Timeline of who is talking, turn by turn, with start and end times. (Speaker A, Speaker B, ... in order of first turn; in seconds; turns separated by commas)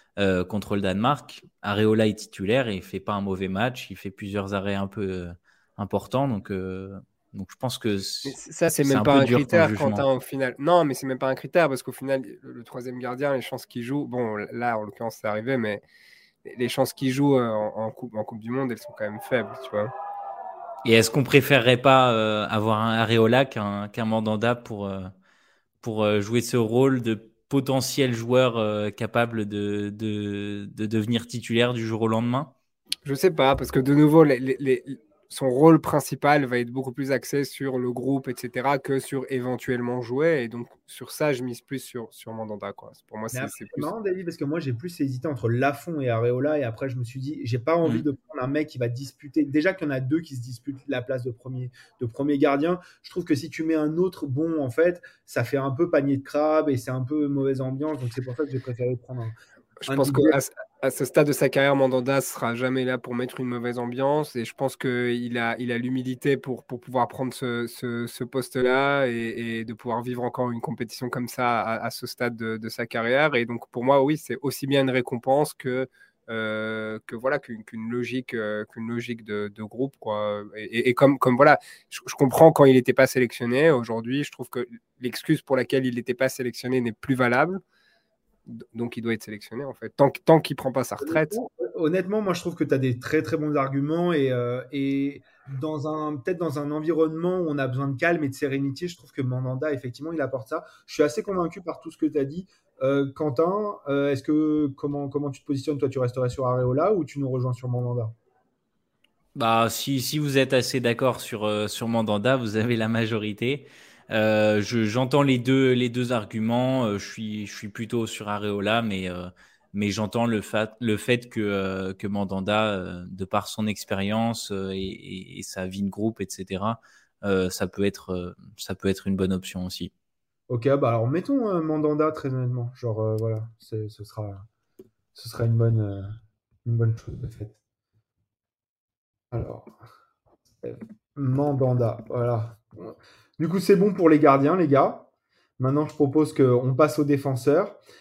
Speaker A: 0.2-10.0, Speaker B: 8.2-15.8, Speaker B: 16.4-19.9, Speaker A: 20.8-25.1, Speaker A: 25.8-32.5, Speaker B: 33.0-43.9, Speaker C: 43.3-59.3, Speaker B: 59.8-87.6, Speaker C: 59.9-60.4, Speaker B: 88.5-91.3, Speaker C: 91.0-108.1, Speaker A: 109.3-129.9, Speaker C: 130.5-134.4, Speaker C: 135.1-136.1, Speaker C: 136.6-137.6, Speaker C: 139.3-139.7, Speaker C: 140.6-145.1, Speaker C: 145.6-147.8